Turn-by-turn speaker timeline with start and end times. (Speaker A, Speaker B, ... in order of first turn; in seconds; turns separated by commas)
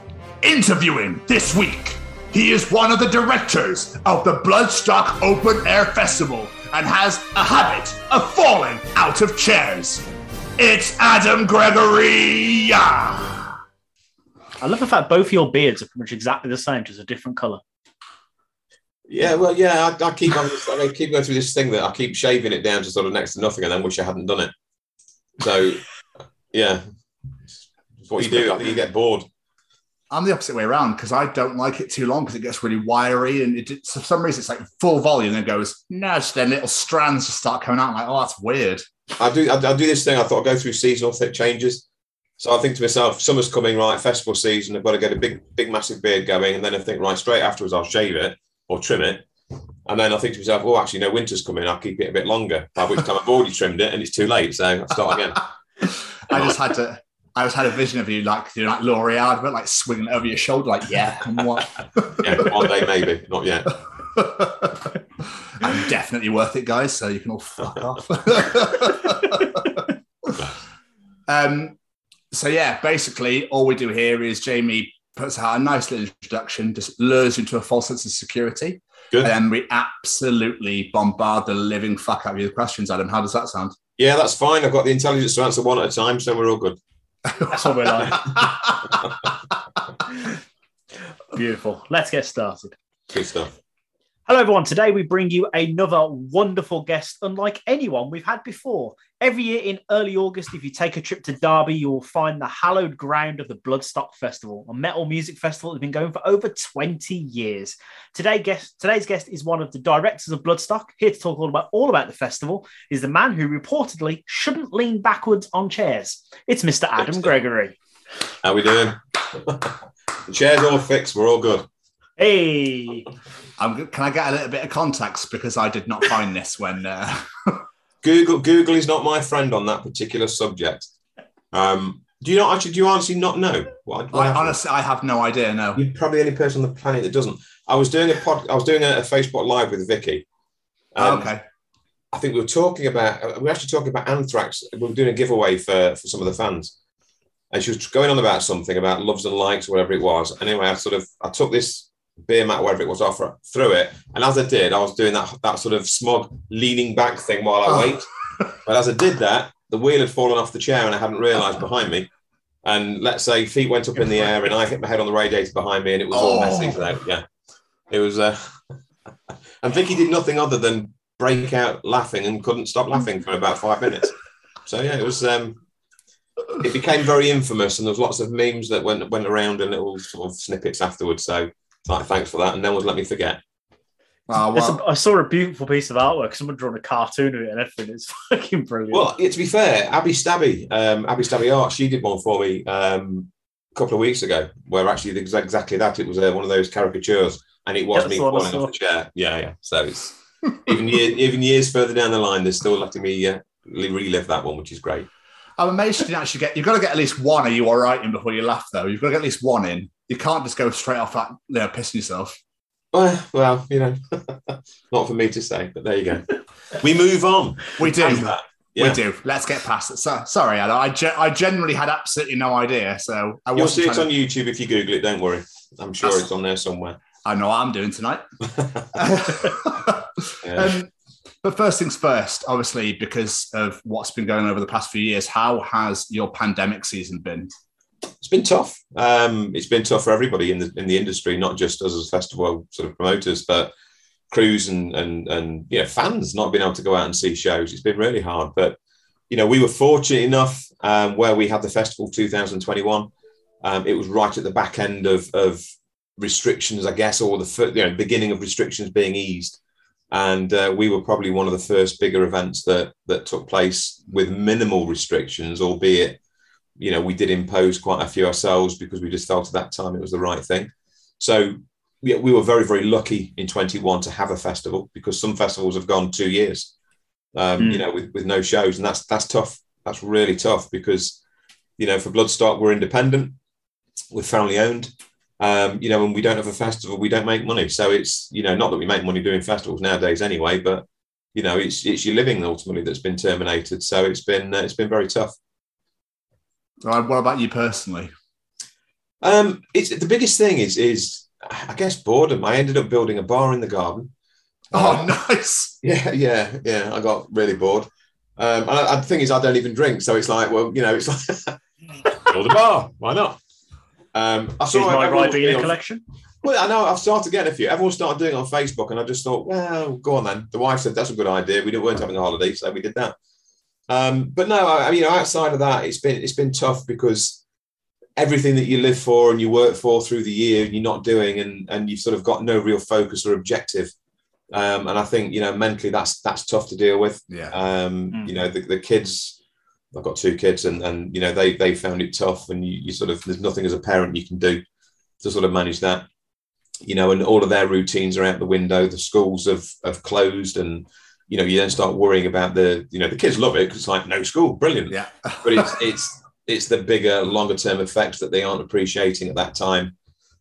Speaker A: 0.4-13.5, Speaker B: 14.6-17.6, Speaker C: 19.1-24.5, Speaker C: 25.4-25.8, Speaker C: 26.5-26.8, Speaker C: 28.0-29.2, Speaker A: 30.1-38.9, Speaker C: 39.2-41.8, Speaker C: 42.4-49.2, Speaker C: 49.9-55.5, Speaker A: 56.3-62.9, Speaker C: 56.3-56.5, Speaker C: 62.0-63.7, Speaker A: 64.1-69.8, Speaker C: 70.3-70.6, Speaker A: 71.3-71.7, Speaker A: 72.3-83.7, Speaker C: 84.0-86.8, Speaker B: 87.5-88.3, Speaker A: 88.2-88.7, Speaker C: 89.0-89.2, Speaker B: 91.3-92.8, Speaker C: 93.1-93.5, Speaker B: 94.3-117.8, Speaker C: 118.4-119.7, Speaker C: 120.2-121.7, Speaker B: 122.2-123.1, Speaker A: 123.6-127.7, Speaker C: 128.0-130.9, Speaker C: 131.5-134.6, Speaker A: 134.1-135.8, Speaker C: 135.7-140.2, Speaker C: 140.9-141.3, Speaker A: 141.0-141.4, Speaker C: 142.1-146.7, Speaker C: 147.5-162.1, Speaker A: 157.7-157.9, Speaker C: 162.6-167.2, Speaker A: 166.1-166.8, Speaker C: 167.9-168.6, Speaker C: 169.6-174.1, Speaker C: 174.7-175.6, Speaker C: 176.6-183.4, Speaker A: 184.3-184.8, Speaker B: 184.5-189.1, Speaker C: 188.9-205.1, Speaker B: 197.9-198.7, Speaker A: 205.6-212.4, Speaker C: 212.9-219.0, Speaker A: 217.8-224.1, Speaker C: 223.5-227.0, Speaker A: 227.2-228.2, Speaker C: 228.6-229.5, Speaker A: 228.9-230.9, Speaker C: 230.4-230.8, Speaker A: 231.4-237.5, Speaker C: 238.2-243.7, Speaker C: 244.3-248.8, Speaker C: 249.3-253.1, Speaker C: 253.6-255.6, Speaker C: 256.2-259.6, Speaker C: 260.1-266.2, Speaker C: 266.8-276.7, Speaker C: 277.3-281.2, Speaker B: 277.6-277.8, Speaker C: 281.8-283.4, Speaker C: 284.1-295.3, Speaker A: 296.8-298.1, Speaker C: 299.2-304.1, Speaker C: 304.7-305.1, Speaker A: 304.7-305.7, Speaker C: 305.8-311.6, Speaker C: 312.2-313.4, Speaker C: 314.1-315.8, Speaker B: 314.7-316.0, Speaker C: 316.4-323.1, Speaker C: 323.9-327.4, Speaker C: 328.2-333.9, Speaker C: 334.5-339.4, Speaker A: 337.3-337.6, Speaker B: 338.1-338.4, Speaker C: 339.9-344.6, Speaker C: 345.2-346.0, Speaker C: 346.8-359.9, Speaker A: 354.9-355.8